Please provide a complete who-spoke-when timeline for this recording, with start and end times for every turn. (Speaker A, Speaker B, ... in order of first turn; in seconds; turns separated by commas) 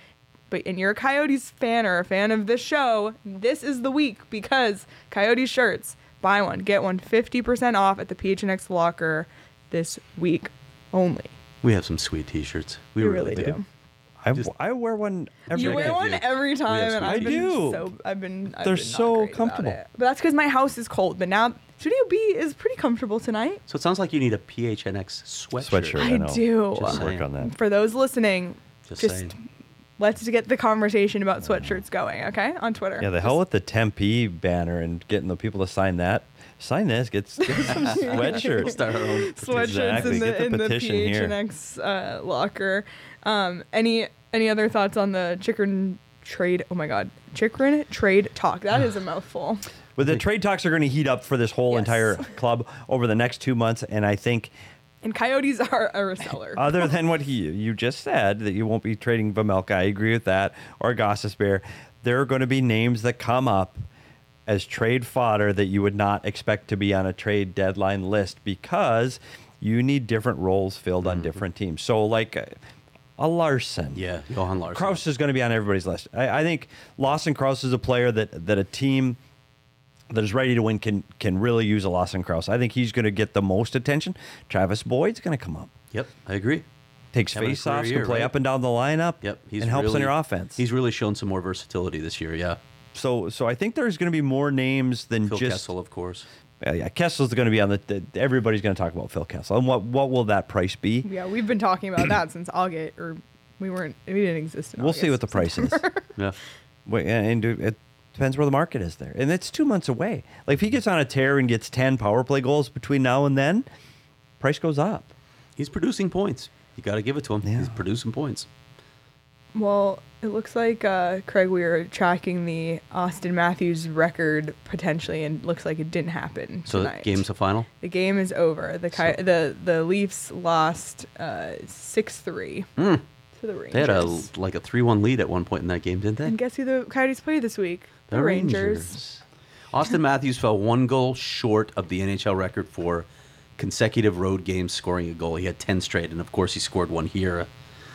Speaker A: 0.5-11.3, Speaker B: 11.6-13.5, Speaker A: 13.0-13.6, Speaker C: 14.2-16.1, Speaker B: 15.5-17.5, Speaker A: 15.5-23.6, Speaker C: 17.1-17.9, Speaker C: 18.6-19.8, Speaker B: 23.7-26.0, Speaker C: 25.6-27.5, Speaker A: 25.9-29.4, Speaker B: 26.8-27.2, Speaker B: 28.9-29.3, Speaker A: 30.0-33.4, Speaker C: 33.0-38.8, Speaker A: 37.5-49.7, Speaker B: 37.7-40.2, Speaker C: 39.5-41.3, Speaker C: 50.0-54.5, Speaker A: 51.7-52.3, Speaker A: 55.0-56.9, Speaker C: 56.5-63.8, Speaker C: 64.5-72.6, Speaker B: 71.0-71.4, Speaker C: 73.2-74.0, Speaker B: 73.9-75.0, Speaker C: 74.7-79.2, Speaker C: 80.1-85.7, Speaker B: 85.9-86.6, Speaker C: 87.1-90.6, Speaker B: 87.3-88.3, Speaker B: 89.2-92.6, Speaker C: 92.9-95.7, Speaker B: 95.2-96.3, Speaker C: 96.6-101.1, Speaker A: 101.0-106.1, Speaker C: 104.8-105.8, Speaker C: 106.8-113.7, Speaker C: 114.4-115.1, Speaker B: 115.6-118.5, Speaker C: 117.4-117.8, Speaker A: 119.5-132.7, Speaker B: 126.7-127.7, Speaker B: 132.8-133.0, Speaker A: 133.3-134.3, Speaker B: 133.7-136.3, Speaker A: 136.2-139.0, Speaker B: 138.1-139.2, Speaker B: 139.7-143.1, Speaker B: 143.6-147.5